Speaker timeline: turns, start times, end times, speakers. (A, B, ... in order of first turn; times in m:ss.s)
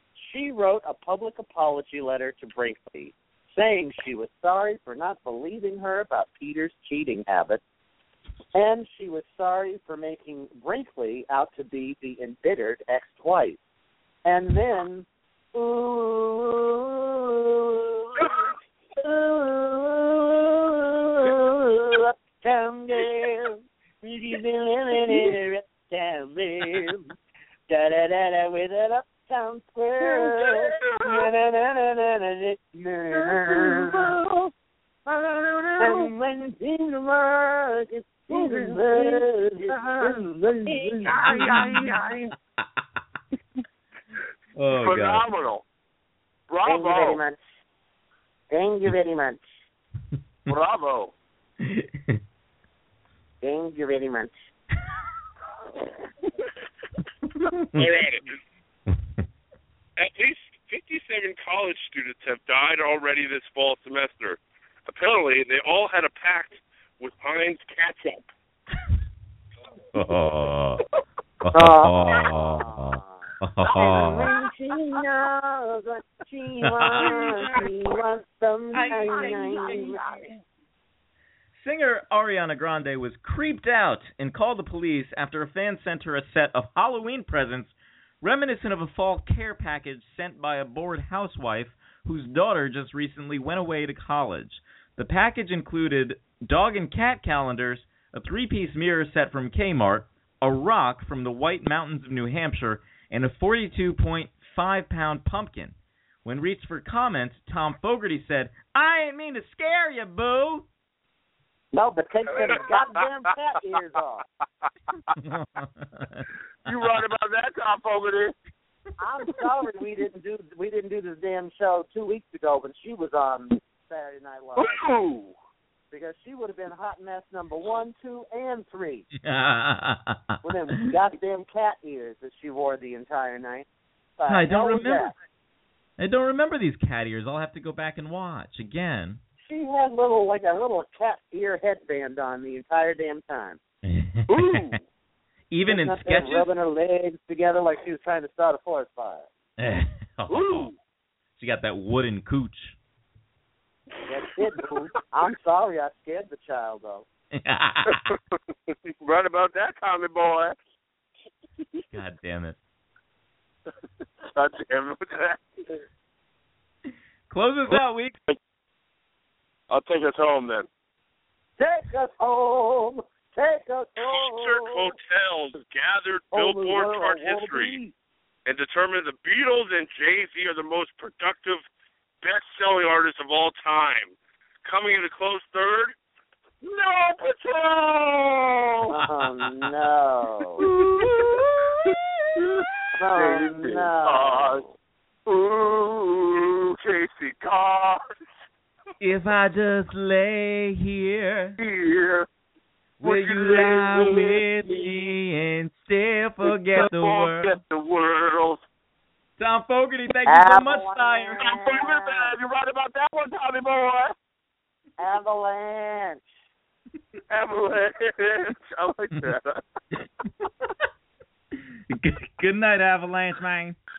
0:00.2-0:07.6 A
0:08.5-0:13.6 A
0:14.2-0:27.1 A
0:27.7-0:34.2 A
0:30.0-0:31.3 B
0:33.1-0:34.5 B
0:35.1-0:36.1 B
0:35.8-0:42.2 A
0:38.3-0:42.2 B
0:41.2-0:41.9 C
0:44.6-0:45.2 C
0:44.7-0:45.6 B
0:46.5-0:47.2 B
0:46.6-0:47.4 A
0:48.5-0:49.5 A
0:50.5-0:51.1 B
0:51.6-0:52.2 C
0:53.4-0:54.4 A
0:57.5-0:58.0 C
0:57.7-0:58.3 B
1:00.0-1:08.3 B
1:09.9-1:10.8 C
1:11.4-1:14.3 C
1:11.5-1:20.3 A
1:16.6-1:17.6 C
1:17.0-1:17.7 B
1:18.7-1:20.3 C
1:19.2-1:19.9 B
1:21.6-1:50.7 C
1:51.7-1:54.2 A
1:52.3-1:52.8 B
1:55.2-1:56.8 C
1:56.7-1:58.3 B
1:59.0-2:04.8 A
2:04.6-2:05.4 B
2:05.9-2:09.1 A
2:09.2-2:10.4 C
2:10.4-2:13.7 A
2:14.2-2:15.2 A
2:14.3-2:15.1 C
2:16.0-2:19.2 C
2:19.4-2:23.6 A
2:23.9-2:24.7 C
2:24.3-2:24.8 B
2:25.5-2:26.5 C
2:25.7-2:29.3 A
2:29.6-2:30.7 C
2:30.3-2:30.8 B
2:31.4-2:32.8 C
2:34.1-2:37.1 A
2:37.3-2:38.2 C
2:39.0-2:40.6 B
2:41.9-2:42.6 C
2:44.4-2:45.7 B
2:47.3-2:48.2 C
2:49.7-2:50.7 B
2:51.6-2:54.9 A
2:54.0-2:57.8 B
2:56.3-2:57.9 A
2:58.5-3:01.6 B
3:02.2-3:05.9 B
3:06.6-3:08.9 B
3:08.9-3:10.7 A
3:09.1-3:09.5 C
3:10.6-3:12.7 C
3:10.6-3:11.1 B
3:12.4-3:14.6 B
3:13.0-3:14.6 A
3:15.3-3:18.0 B
3:19.0-3:21.6 C
3:21.6-3:22.3 B
3:23.0-3:24.8 B
3:23.0-3:27.6 C
3:26.5-3:28.6 B
3:29.4-3:31.4 C
3:30.3-3:32.3 A
3:31.4-3:34.2 B
3:35.0-3:36.3 A
3:37.3-3:39.6 B
3:41.9-3:43.8 C